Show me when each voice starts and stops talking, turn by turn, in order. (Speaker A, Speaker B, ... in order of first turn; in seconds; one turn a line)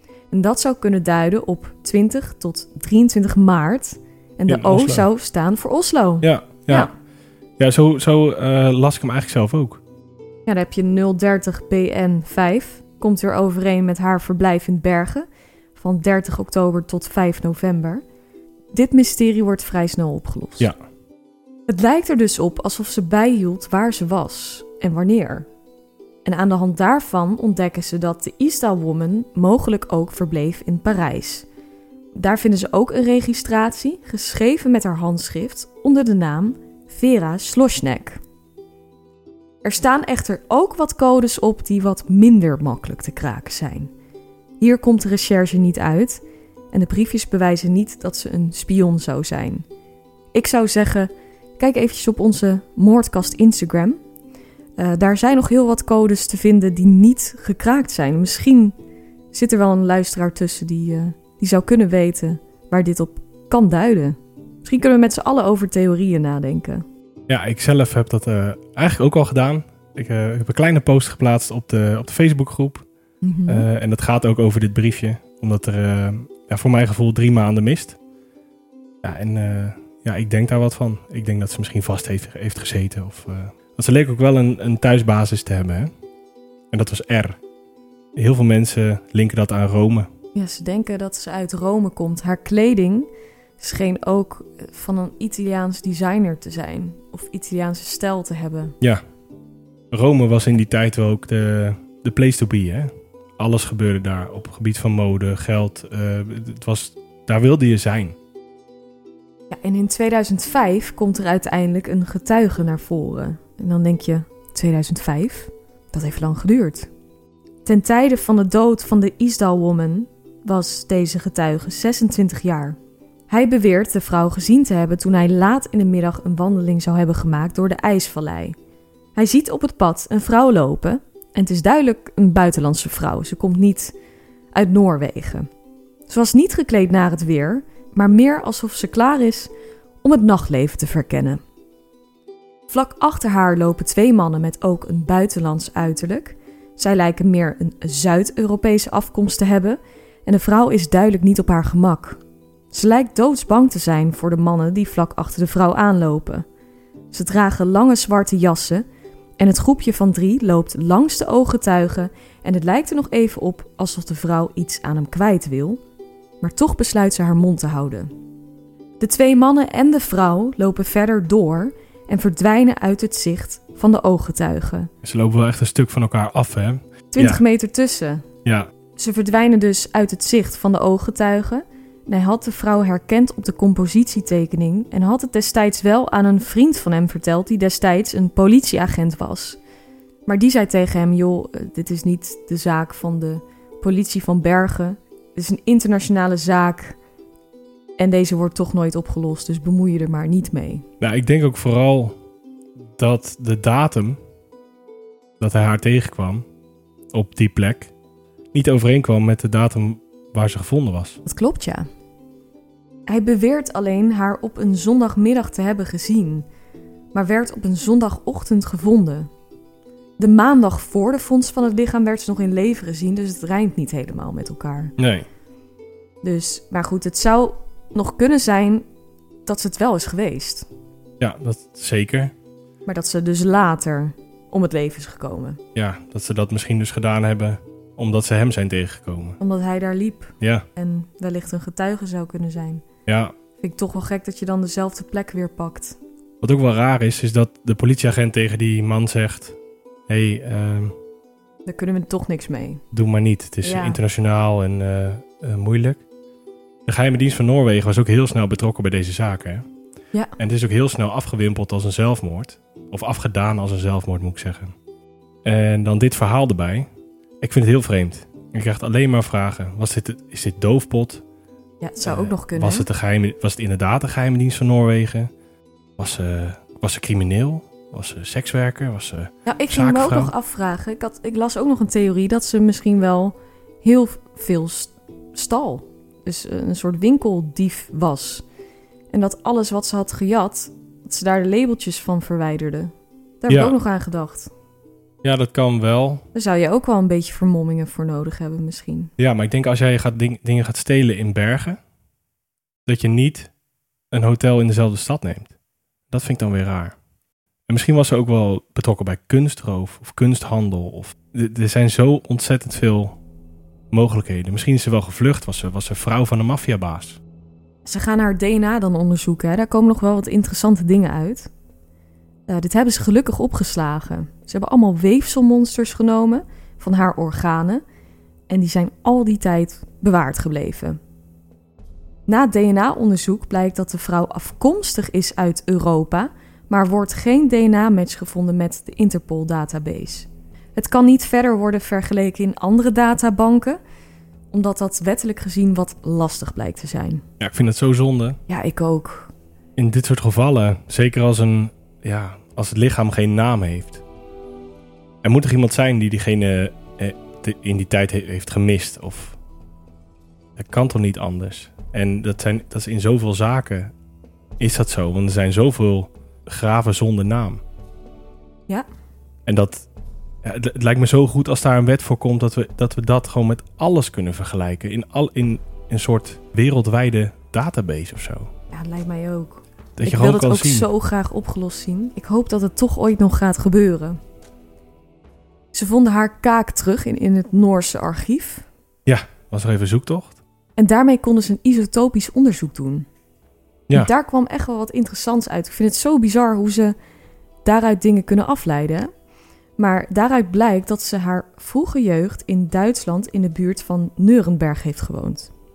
Speaker A: 0.3-6.9
Speaker B: 4.5-5.0
Speaker B: 6.2-6.9
Speaker B: 7.6-9.8
Speaker A: 10.4-18.0
Speaker A: 18.7-20.7
Speaker A: 21.7-25.5
Speaker A: 26.2-31.4
Speaker A: 32.1-38.2
Speaker A: 39.6-43.9
Speaker A: 44.6-49.6
Speaker A: 50.3-54.0
Speaker A: 54.8-58.7
Speaker A: 59.3-66.8
Speaker B: 67.3-72.8
Speaker A: 73.2-73.7
Speaker B: 73.5-78.0
Speaker B: 79.0-85.9
Speaker B: 86.7-87.4
Speaker B: 88.2-90.1
Speaker A: 90.3-98.7
Speaker B: 99.9-108.2
Speaker A: 109.5-116.9
Speaker A: 117.6-122.8
Speaker A: 123.3-128.6
Speaker A: 129.2-133.9
Speaker A: 134.5-135.5
Speaker A: 136.1-139.5
Speaker A: 140.0-141.4
Speaker A: 142.7-152.2
Speaker A: 152.7-156.4
Speaker A: 157.1-158.8
Speaker A: 159.4-165.8
Speaker A: 166.4-168.1
Speaker A: 169.0-174.9
Speaker B: 175.0-177.4
Speaker A: 177.1-178.2
Speaker A: 179.0-189.6
Speaker A: 190.2-196.9
Speaker A: 198.0-200.8
Speaker B: 201.0-202.2
Speaker B: 202.9-204.2
Speaker B: 205.4-206.4
Speaker B: 207.1-207.9
Speaker B: 208.5-211.2
Speaker A: 211.2-211.9
Speaker A: 213.1-216.4
Speaker A: 217.1-219.3
Speaker A: 220.2-224.9
Speaker B: 225.0-225.3
Speaker A: 226.2-228.8
Speaker A: 229.4-230.7
Speaker B: 231.2-232.3
Speaker A: 232.8-235.6
Speaker B: 235.7-239.4
Speaker A: 239.4-242.8
Speaker B: 240.4-240.7
Speaker B: 243.1-243.3
Speaker A: 243.6-246.0
Speaker B: 246.4-249.6
Speaker B: 250.1-250.9
Speaker A: 251.7-252.8
Speaker B: 252.9-256.0
Speaker A: 253.6-254.0
Speaker B: 256.9-259.6
Speaker B: 260.4-264.7
Speaker B: 265.4-266.9
Speaker B: 267.4-271.2
Speaker A: 271.8-272.9
Speaker B: 272.0-275.3
Speaker B: 276.0-280.3
Speaker A: 279.4-288.4
Speaker A: 289.1-294.5
Speaker B: 293.5-293.7
Speaker B: 295.2-296.2
Speaker A: 296.3-299.1
Speaker B: 299.2-301.8
Speaker B: 302.9-303.5
Speaker B: 304.1-305.5
Speaker B: 306.1-306.9
Speaker B: 307.7-313.2
Speaker B: 313.9-317.2
Speaker A: 317.9-321.5
Speaker A: 322.5-327.8
Speaker A: 328.5-331.0
Speaker A: 332.3-343.8
Speaker A: 344.5-347.2
Speaker B: 347.4-348.4
Speaker A: 348.5-349.3
Speaker B: 349.8-354.0
Speaker B: 355.2-359.4
Speaker B: 360.6-363.9
Speaker B: 364.6-367.6
Speaker B: 369.4-369.9
Speaker B: 370.4-378.5
Speaker A: 378.7-384.2
Speaker B: 380.0-380.9
Speaker A: 385.7-388.6
Speaker B: 389.1-390.4
Speaker A: 390.8-393.1
Speaker A: 393.9-396.9
Speaker A: 397.6-399.1
Speaker A: 399.8-405.5